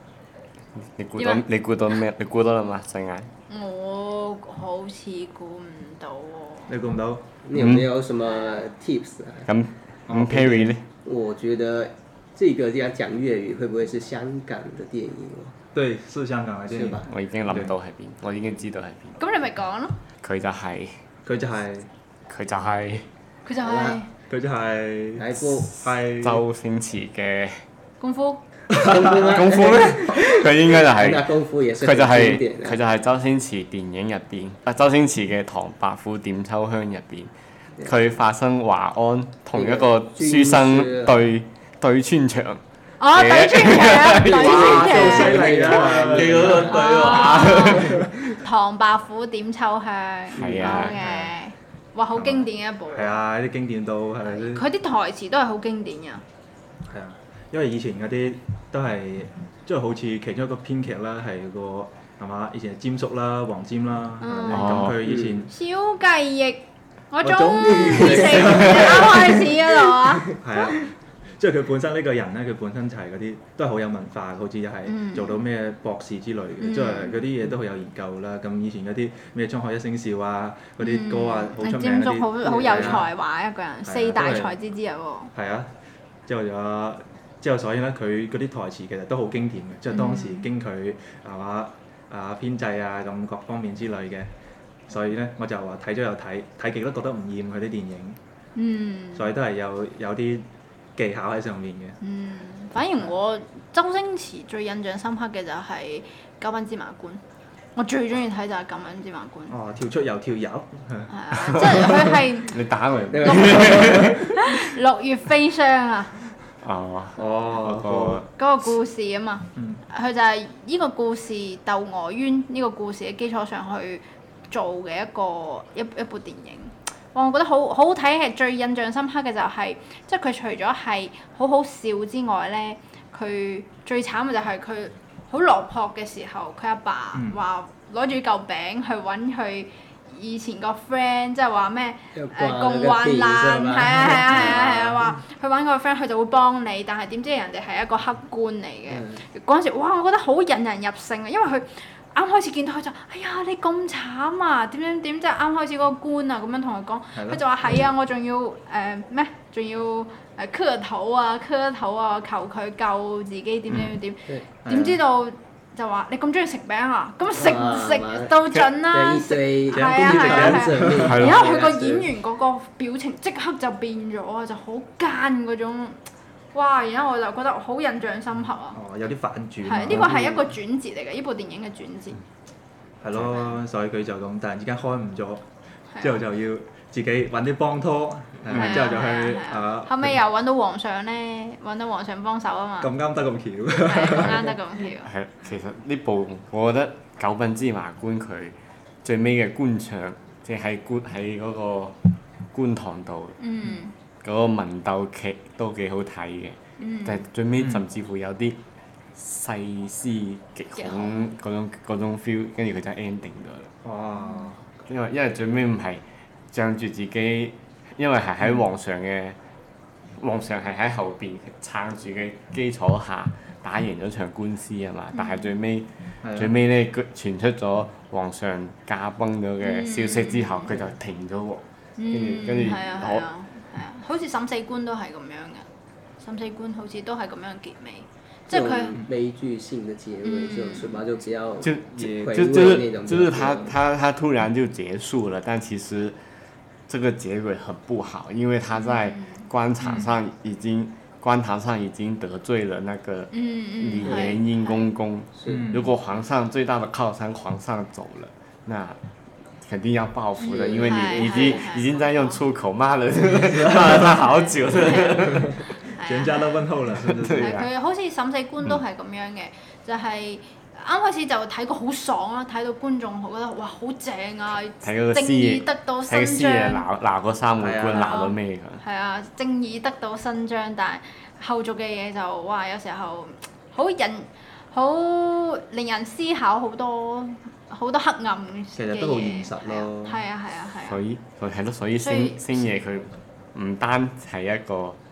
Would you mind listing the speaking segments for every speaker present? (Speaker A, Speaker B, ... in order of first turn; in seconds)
Speaker A: 0.8-3.3, 7.5-7.9, 9.5-10.8, 17.1-19.2, 20.2-21.0, 22.3-23.1, 25.4-27.6, 29.1-42.6, 43.1-48.1, 50.3-51.0, 64.5-65.0, 112.4-114.4, 116.6-118.3, 188.5-188.8, 195.0-202.0, 202.5-203.4, 204.2-208.6, 209.1-213.7, 214.8-219.4, 220.2-233.2, 241.6-246.2, 246.9-259.0, 259.6-265.6, 267.0-267.7, 274.8-278.8, 290.8-295.0
Speaker B: 1.2-1.4, 3.5-6.7, 19.2-19.9, 23.4-24.1, 28.0-28.4, 43.0-45.4, 46.5-53.1, 54.2-56.2, 64.2-64.8, 65.5-70.3, 74.9-75.4, 76.6-77.2, 80.8-85.3, 89.9-90.5, 98.5-99.3, 102.0-107.2, 107.8-109.5, 111.1-112.6, 113.2-116.2, 118.4-176.0, 176.5-178.8, 179.6-182.2, 185.9-186.2, 188.5-192.9, 193.8-195.1, 203.4-203.9, 206.8-207.2, 210.8-211.2, 225.1-225.5, 229.6-230.7, 232.0-235.7, 236.2-239.0, 240.2-241.0, 248.7-249.5, 253.3-254.9, 260.5-262.4, 264.3-265.2, 266.0-266.4, 267.3-276.8, 277.9-291.0, 292.0-292.4
Speaker C: 6.7-7.3, 10.1-10.7, 15.7-17.7, 21.2-21.9, 24.3-26.4, 28.7-29.3, 44.5-46.7, 50.8-51.3, 52.1-54.6, 56.9-65.5, 67.2-69.4, 70.4-83.1, 83.8-84.5, 85.3-85.7, 86.3-94.3, 94.9-98.2, 99.1-102.0, 109.5-112.1, 117.2-118.3, 119.5-119.8, 157.1-157.4, 163.7-163.9, 164.6-165.0, 169.7-171.4, 178.7-180.3, 183.0-185.4, 186.0-190.2, 192.8-194.5, 207.6-207.8, 213.8-214.6, 226.2-226.6, 242.0-242.4, 249.8-250.1, 255.5-255.9, 263.3-264.3, 264.8-267.5, 277.6-278.1, 288.7-290.2
Speaker D: 7.4-9.5, 10.4-15.5, 16.7-17.1, 23.6-24.0, 25.1-25.7, 28.7-32.8, 39.5-41.3, 44.1-48.1, 50.4-50.7, 65.0-65.5, 67.6-69.2, 69.9-70.3, 82.4-83.0, 113.1-114.2, 142.1-145.0, 148.9-149.2, 167.3-172.1, 179.9-180.5, 238.5-243.8, 254.0-254.3, 255.3-255.7, 260.4-261.5